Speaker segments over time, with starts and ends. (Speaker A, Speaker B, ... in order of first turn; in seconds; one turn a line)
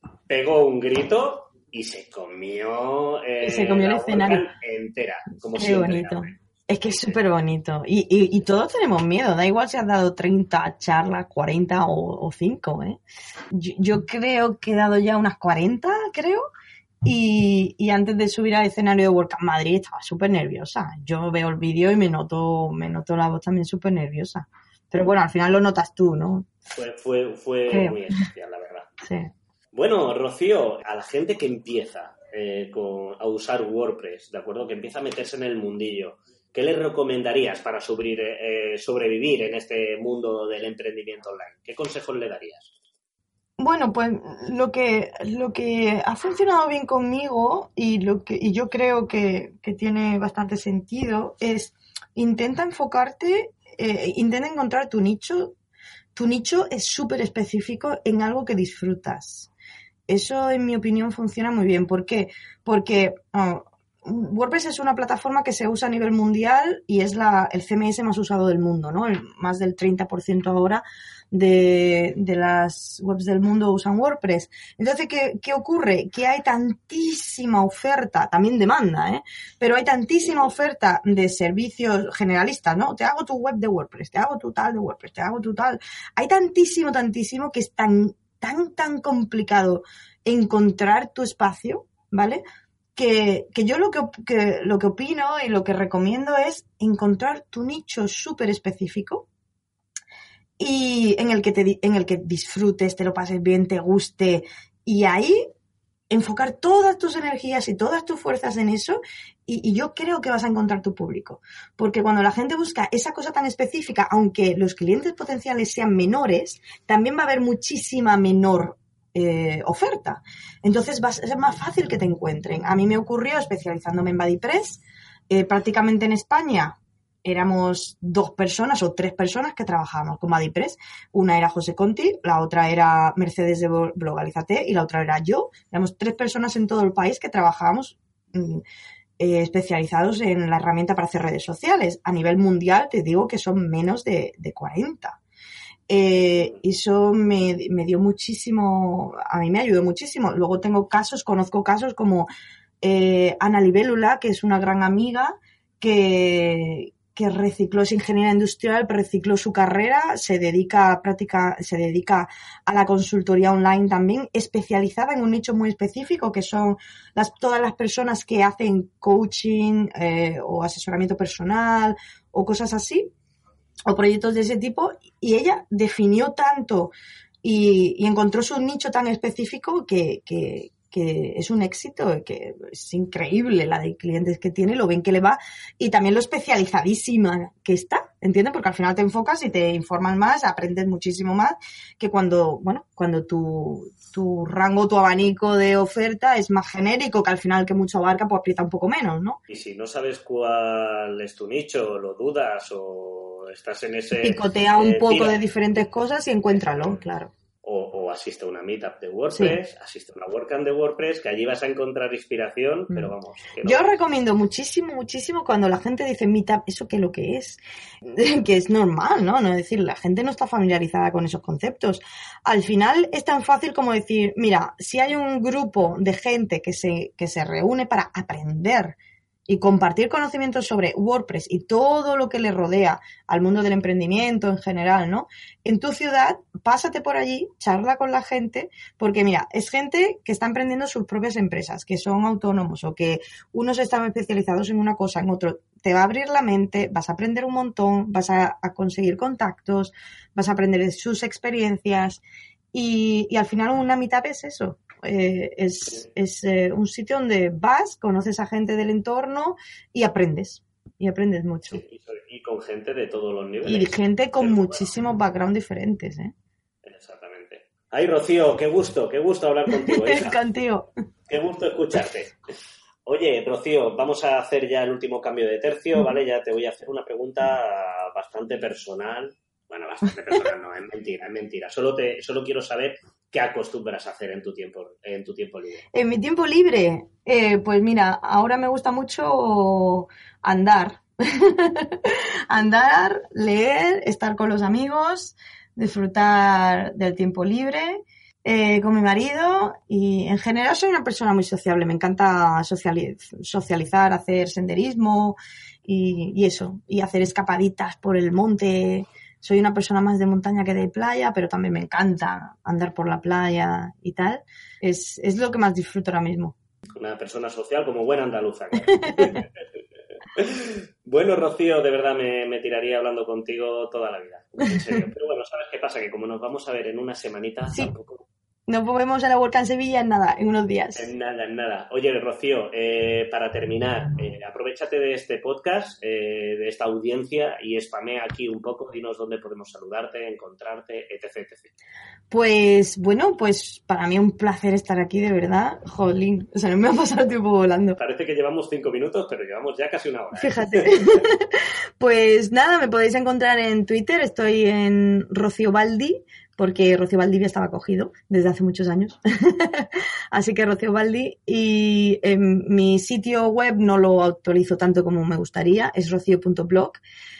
Speaker A: 0.3-7.2
Speaker B: 3.4-4.5
Speaker B: 5.6-16.4
Speaker B: 17.0-26.5
Speaker A: 26.7-28.9
Speaker B: 27.7-28.0
Speaker B: 29.0-29.3
Speaker A: 29.7-42.7
Speaker B: 43.6-55.5
Speaker B: 56.1-59.5
Speaker B: 60.1-92.4
Speaker B: 92.9-99.2
Speaker B: 100.6-105.5
Speaker B: 106.1-138.6
Speaker B: 139.2-145.2
Speaker B: 145.9-152.3
Speaker B: 152.8-173.1
Speaker B: 173.8-199.4
Speaker A: 199.5-205.4
Speaker B: 204.2-207.3
Speaker A: 206.6-207.0
Speaker A: 207.6-213.9
Speaker B: 209.3-209.6
Speaker B: 212.9-228.9
Speaker B: 229.5-252.2
Speaker B: 252.7-261.8
Speaker A: 261.7-264.9
Speaker B: 263.6-266.3
Speaker A: 266.8-270.4
Speaker B: 269.8-270.9
Speaker A: 271.3-272.3
Speaker A: 273.0-285.8
Speaker B: 285.9-316.6
Speaker A: 316.9-319.5
Speaker B: 318.9-319.4
Speaker A: 320.3-328.3
Speaker B: 324.8-325.0
Speaker B: 328.7-331.1
Speaker A: 330.9-341.7
Speaker B: 342.3-348.0
Speaker A: 348.0-351.3
Speaker B: 350.4-367.0